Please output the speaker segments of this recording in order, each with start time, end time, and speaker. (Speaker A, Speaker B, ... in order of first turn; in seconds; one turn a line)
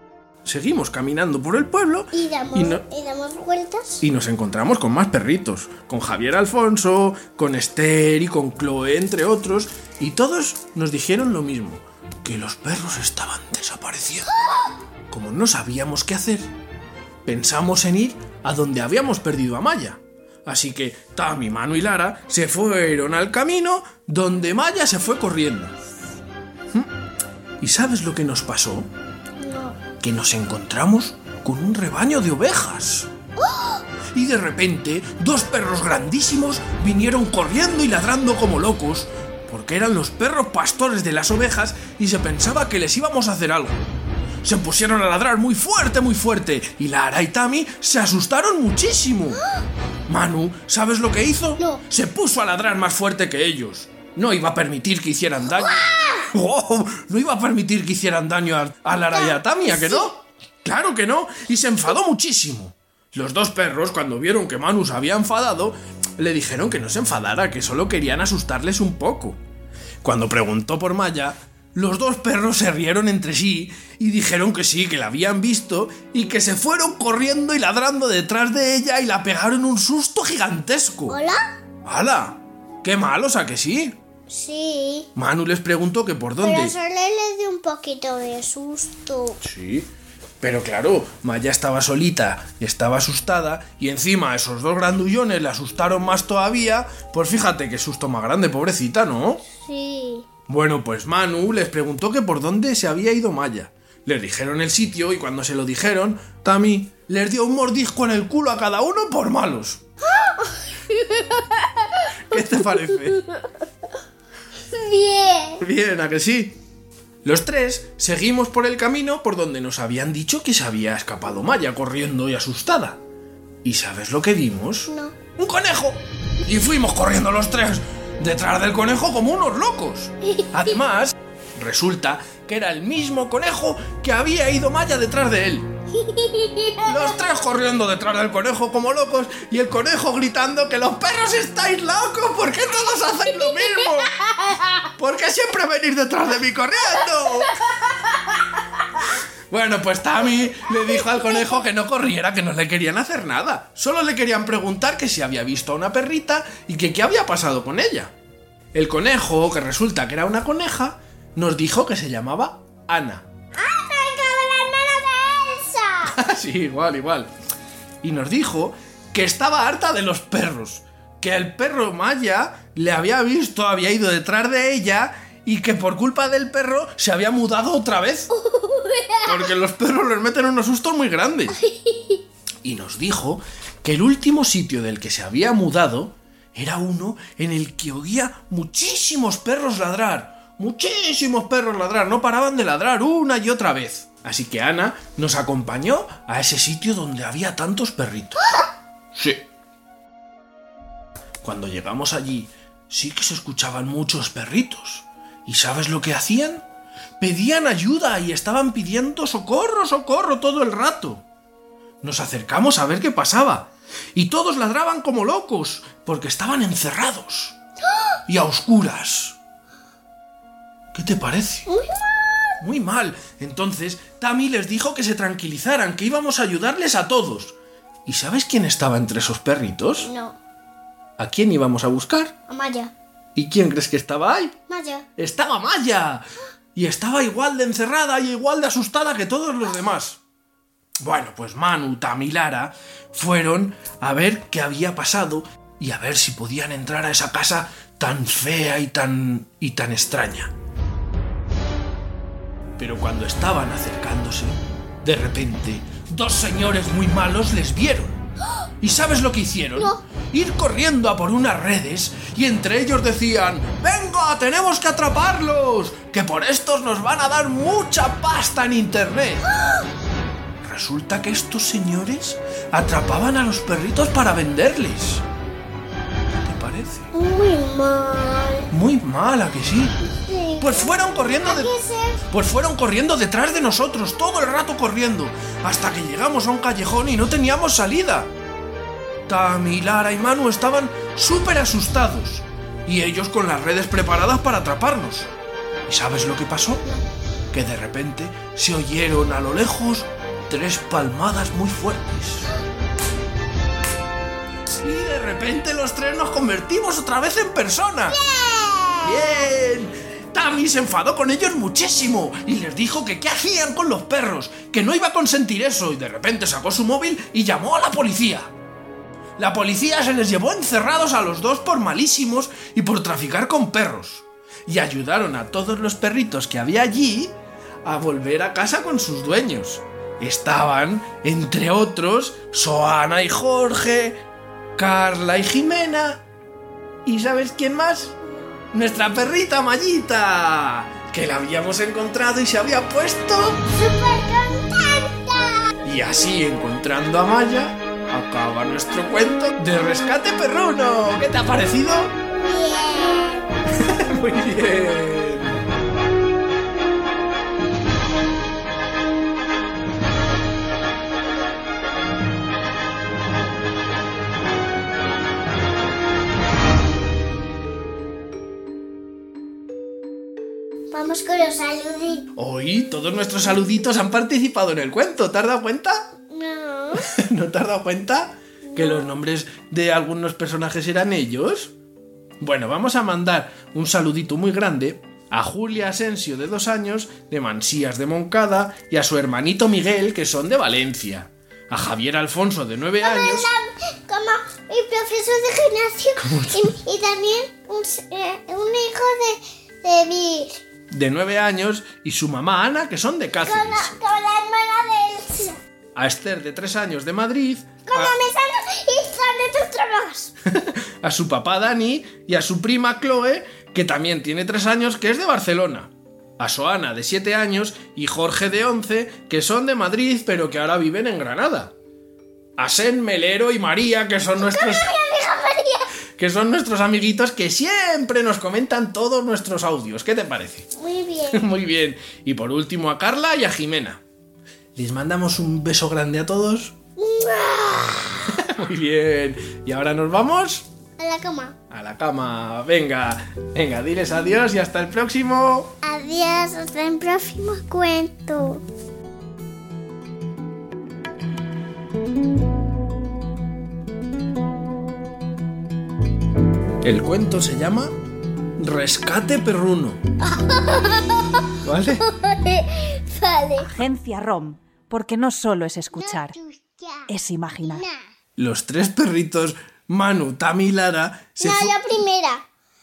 Speaker A: 0.4-2.8
Speaker B: 2.1-4.0
Speaker A: 4.0-14.3
Speaker A: 15.1-16.5
Speaker A: 17.3-25.8
Speaker A: 27.6-28.9
Speaker B: 29.4-29.8
Speaker A: 30.0-33.1
Speaker B: 33.4-33.8
Speaker A: 34.1-43.8
Speaker A: 44.4-49.4
Speaker A: 50.1-69.4
Speaker B: 55.7-56.2
Speaker B: 59.1-60.1
Speaker A: 70.0-81.2
Speaker B: 81.1-81.4
Speaker A: 81.8-84.0
Speaker B: 84.3-85.1
Speaker A: 85.2-86.8
Speaker B: 86.4-89.4
Speaker A: 89.4-89.9
Speaker A: 90.4-99.4
Speaker B: 99.5-100.3
Speaker A: 100.5-109.8
Speaker B: 110.1-111.3
Speaker A: 112.3-113.2
Speaker B: 114.7-115.6
Speaker A: 115.6-116.6
Speaker A: 117.2-123.0
Speaker A: 123.6-135.7
Speaker B: 124.9-125.2
Speaker B: 136.0-137.2
Speaker A: 136.8-148.2
Speaker A: 149.5-158.1
Speaker B: 151.0-151.5
Speaker A: 158.7-163.3
Speaker B: 163.6-166.2
Speaker A: 166.1-167.3
Speaker A: 168.0-178.3
Speaker B: 178.3-179.5
Speaker A: 179.2-181.6
Speaker B: 181.6-182.2
Speaker A: 182.6-198.6
Speaker A: 199.1-199.5
Speaker A: 201.4-206.6
Speaker A: 207.2-211.2
Speaker A: 212.0-217.6
Speaker A: 218.3-219.4
Speaker A: 220.9-221.7
Speaker B: 221.7-222.6
Speaker A: 222.6-227.6
Speaker A: 228.1-230.1
Speaker B: 230.0-230.4
Speaker A: 231.2-232.3
Speaker B: 232.5-232.9
Speaker A: 233.4-234.6
Speaker B: 234.7-235.1
Speaker A: 235.2-240.2
Speaker A: 241.0-250.5
Speaker A: 252.8-258.2
Speaker A: 258.8-269.5
Speaker A: 270.6-275.2
Speaker A: 276.4-277.1
Speaker B: 277.1-278.7
Speaker A: 278.7-280.0
Speaker B: 280.1-282.2
Speaker A: 280.6-281.7
Speaker A: 282.3-288.3
Speaker A: 289.3-295.3
Speaker A: 295.9-297.0
Speaker A: 297.5-302.5
Speaker A: 304.8-308.2
Speaker B: 308.1-309.4
Speaker A: 309.0-318.5
Speaker A: 319.4-334.2
Speaker A: 334.8-336.2
Speaker A: 337.1-338.2
Speaker B: 338.3-338.6
Speaker A: 338.7-343.6
Speaker B: 343.7-345.7
Speaker A: 345.8-352.1
Speaker B: 352.4-353.6
Speaker A: 353.9-355.6
Speaker B: 370.9-372.3
Speaker A: 372.4-376.1
Speaker B: 376.3-377.1
Speaker A: 377.0-381.7
Speaker B: 378.7-379.1
Speaker A: 382.4-393.5
Speaker B: 393.0-400.6
Speaker A: 396.2-396.8
Speaker A: 400.9-403.9
Speaker B: 403.4-405.6
Speaker A: 405.9-408.1
Speaker B: 407.9-410.3
Speaker A: 410.5-421.7
Speaker A: 422.6-424.9
Speaker B: 424.4-425.9
Speaker A: 426.2-430.7
Speaker B: 430.8-431.4
Speaker A: 431.3-434.0
Speaker A: 434.8-436.7
Speaker B: 437.0-438.2
Speaker A: 438.4-440.7
Speaker B: 441.0-441.6
Speaker A: 441.7-445.7
Speaker B: 445.8-448.6
Speaker A: 456.8-458.0
Speaker A: 458.6-460.0
Speaker B: 460.2-463.7
Speaker A: 461.6-462.0
Speaker C: 463.6-466.4
Speaker B: 465.9-467.1
Speaker C: 467.1-467.9
Speaker B: 467.6-468.0
Speaker A: 468.4-471.8
Speaker B: 471.4-472.4